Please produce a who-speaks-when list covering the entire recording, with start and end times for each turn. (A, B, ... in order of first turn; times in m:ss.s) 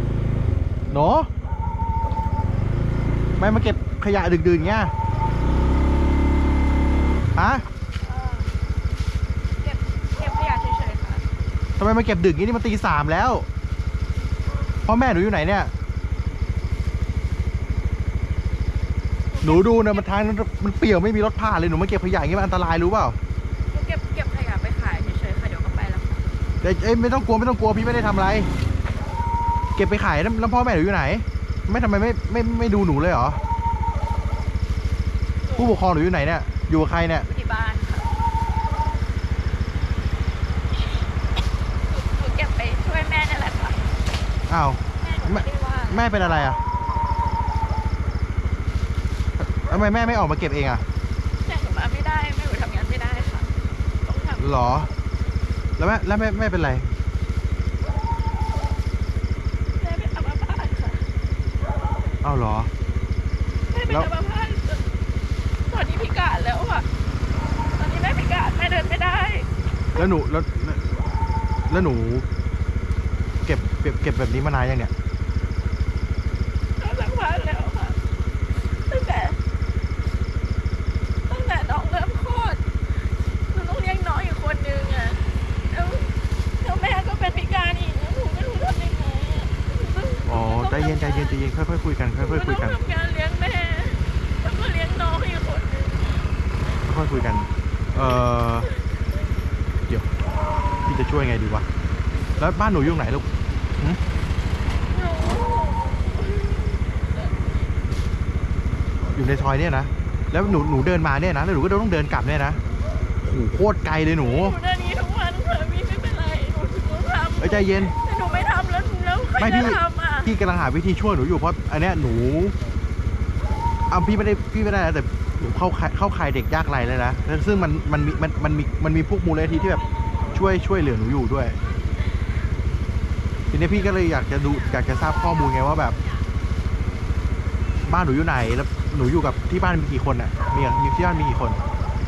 0:00.9-0:01.3 A
0:03.4-0:04.9 A
0:07.4-0:07.6 A
0:08.0-0:08.5 B
0:09.6-0:11.3 B
0:11.8-0:13.5 A
0:14.8-0:15.7 A
0:19.3-0:20.0 B
0:19.4-0:23.2 A
0:23.7-0:26.2 B
0:26.6-0:28.5 A
0:29.8-0:33.4 A
0:35.4-0:35.7 B
0:35.6-0:37.3 A
0:37.2-0:38.1 B
0:41.9-0:43.9 B
0:44.5-0:46.6 A
0:45.0-0:46.1 B
0:49.5-0:50.8 A
0:51.4-0:53.5 B
0:54.0-0:54.6 B
0:54.4-0:54.9 A
0:55.8-0:56.9 A
0:59.8-1:01.1 B
1:02.2-1:02.7 A
1:03.7-1:04.9 B
1:05.7-1:06.9 B
1:07.8-1:10.0 B
1:10.0-1:10.9 A
1:11.7-1:12.3 A
1:13.4-1:14.9 A
1:16.8-1:18.0 B
1:18.7-1:19.4 B
1:21.3-1:22.6 B
1:23.5-1:31.4 B
1:30.3-1:32.8 A
1:32.2-1:36.4 B
1:36.8-1:38.7 A
1:40.9-1:41.7 A
1:42.4-1:43.3 A
1:44.9-1:47.5 B
1:49.2-1:52.6 A
1:53.2-1:54.6 A
1:54.2-2:00.4 B
1:57.4-1:57.9 A
1:59.4-2:02.6 A
2:03.9-2:09.8 A
2:10.3-2:11.6 A
2:13.5-2:16.0 A
2:17.8-2:21.6 A